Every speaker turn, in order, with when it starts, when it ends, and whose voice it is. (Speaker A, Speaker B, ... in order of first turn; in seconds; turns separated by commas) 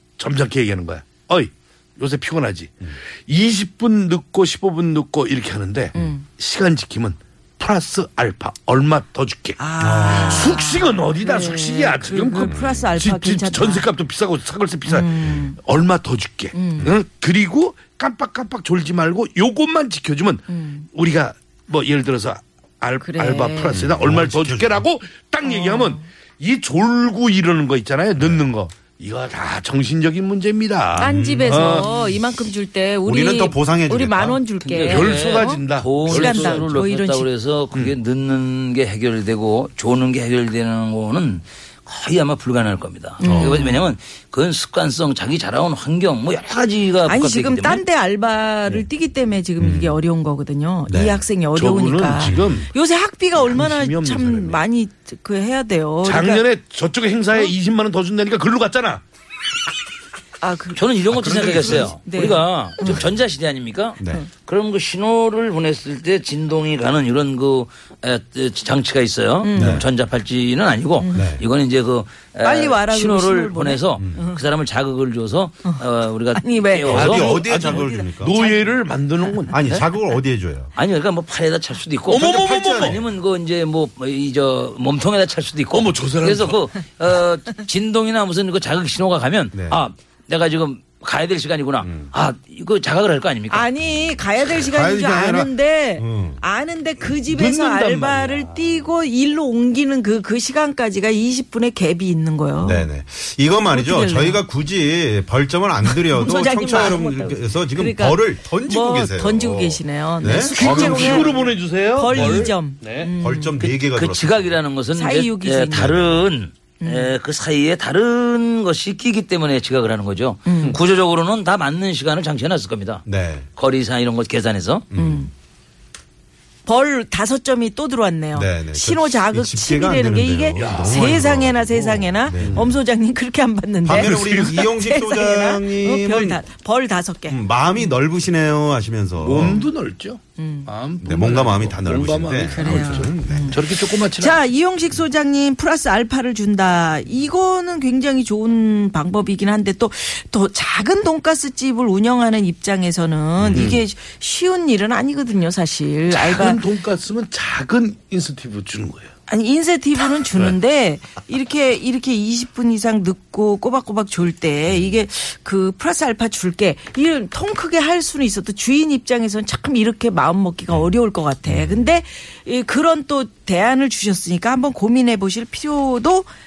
Speaker A: 0.2-31.9, Speaker B: 5.9-6.2, Speaker B: 9.6-13.9, Speaker C: 9.8-10.6, Speaker C: 12.4-12.9, Speaker B: 14.9-15.6, Speaker C: 15.2-15.4, Speaker B: 16.5-16.9, Speaker B: 20.5-20.9, Speaker B: 23.0-23.8, Speaker C: 23.7-24.8, Speaker B: 25.4-26.1, Speaker C: 30.9-32.4, Speaker B: 31.0-37.3, Speaker C: 33.0-34.4, Speaker D: 34.6-47.8, Speaker A: 34.9-36.9, Speaker B: 43.2-43.8, Speaker C: 43.2-43.6, Speaker B: 47.0-56.4, Speaker C: 49.6-50.0, Speaker C: 50.9-51.2, Speaker A: 51.5-52.7, Speaker C: 52.2-52.6, Speaker A: 53.3-54.6, Speaker A: 56.0-59.0, Speaker B: 60.4-63.0, Speaker D: 60.7-77.3, Speaker A: 61.1-61.9, Speaker C: 61.3-61.8, Speaker C: 62.8-63.2, Speaker C: 64.0-64.3, Speaker B: 69.4-69.8, Speaker C: 69.5-69.9, Speaker B: 71.0-71.3, Speaker C: 71.1-71.4, Speaker B: 72.4-74.4, Speaker C: 74.0-74.3, Speaker B: 75.7-79.4, Speaker C: 76.8-78.4, Speaker A: 76.9-79.6, Speaker C: 79.5-80.7, Speaker D: 79.6-79.9, Speaker D: 80.8-93.7, Speaker A: 82.1-83.0, Speaker C: 82.1-83.1, Speaker A: 85.7-86.6, Speaker C: 89.5-89.8, Speaker C: 91.8-92.1, Speaker B: 93.5-102.9, Speaker C: 93.8-96.4, Speaker A: 97.3-98.8, Speaker C: 102.6-111.3, Speaker B: 103.7-104.4, Speaker B: 105.8-113.6, Speaker A: 110.5-113.1, Speaker C: 112.1-112.5, Speaker C: 113.1-114.6, Speaker D: 113.6-124.9, Speaker B: 114.9-116.2, Speaker C: 115.7-116.2, Speaker B: 116.8-117.1, Speaker B: 120.5-120.8, Speaker C: 123.0-123.5, Speaker C: 124.9-125.3, Speaker B: 124.9-125.3, Speaker B: 126.7-137.9, Speaker C: 128.3-132.8, Speaker A: 130.6-131.3, Speaker A: 132.3-132.7, Speaker C: 133.8-136.4, Speaker A: 133.9-134.6, Speaker C: 137.3-139.6, Speaker A: 139.2-144.4, Speaker B: 139.4-139.7, Speaker B: 140.4-140.7, Speaker C: 141.0-143.6, Speaker B: 142.5-156.6, Speaker C: 153.4-153.8, Speaker A: 153.5-153.8, Speaker A: 156.1-159.1, Speaker B: 159.3-176.3, Speaker A: 160.2-160.5, Speaker C: 164.7-165.0, Speaker C: 170.7-171.9